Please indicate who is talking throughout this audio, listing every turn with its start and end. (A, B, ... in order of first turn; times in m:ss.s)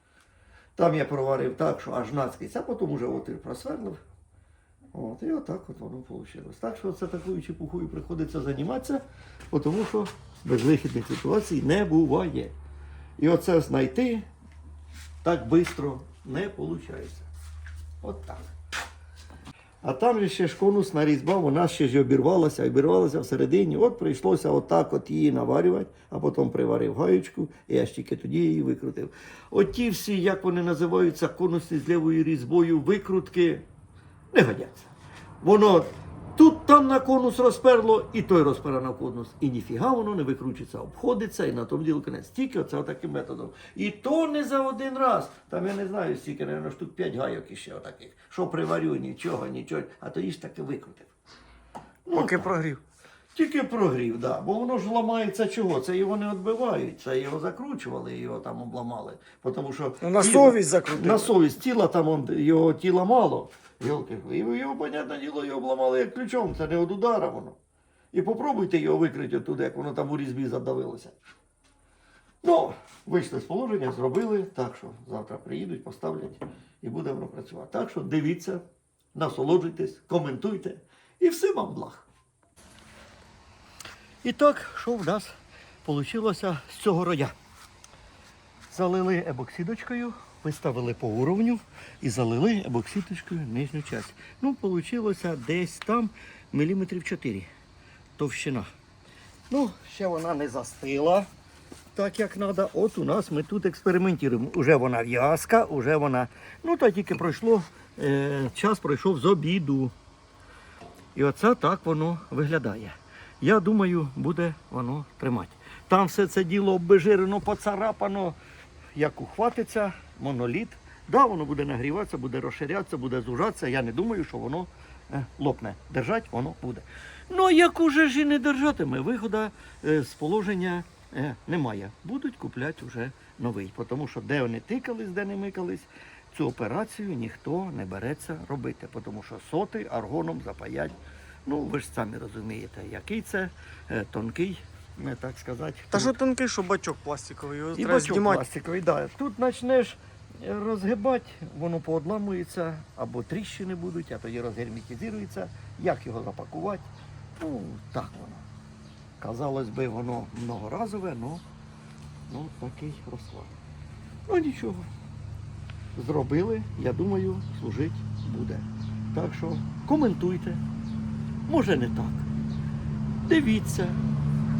0:00.8-0:04.0 A
0:04.9-0:12.6 A
0:13.2-0:14.3 A
0:15.2-0:17.3 A
0:18.0-0:18.5 A
0:19.8-0:33.6 A
0:34.3-0:51.1 A
0:52.1-0:52.5 A
0:52.1-0:52.8 B
0:53.3-1:07.6 A
1:00.0-1:01.3 B
1:08.1-1:11.2 A
1:12.4-1:18.6 A
1:19.1-1:22.1 A
1:24.2-1:25.3 A
1:25.8-1:27.3 A
1:28.7-1:37.5 A
1:38.2-1:38.7 A
1:39.5-1:41.3 A
1:42.0-1:49.9 A
1:51.2-1:58.4 A
1:59.0-2:26.2 A
2:25.9-2:28.4 B
2:27.8-2:36.9 A
2:37.4-2:38.4 A
2:39.2-2:41.4 A
2:42.3-2:43.5 A
2:44.3-2:44.9 A
2:46.0-2:50.6 A
2:51.5-2:52.3 A
2:53.2-2:54.0 A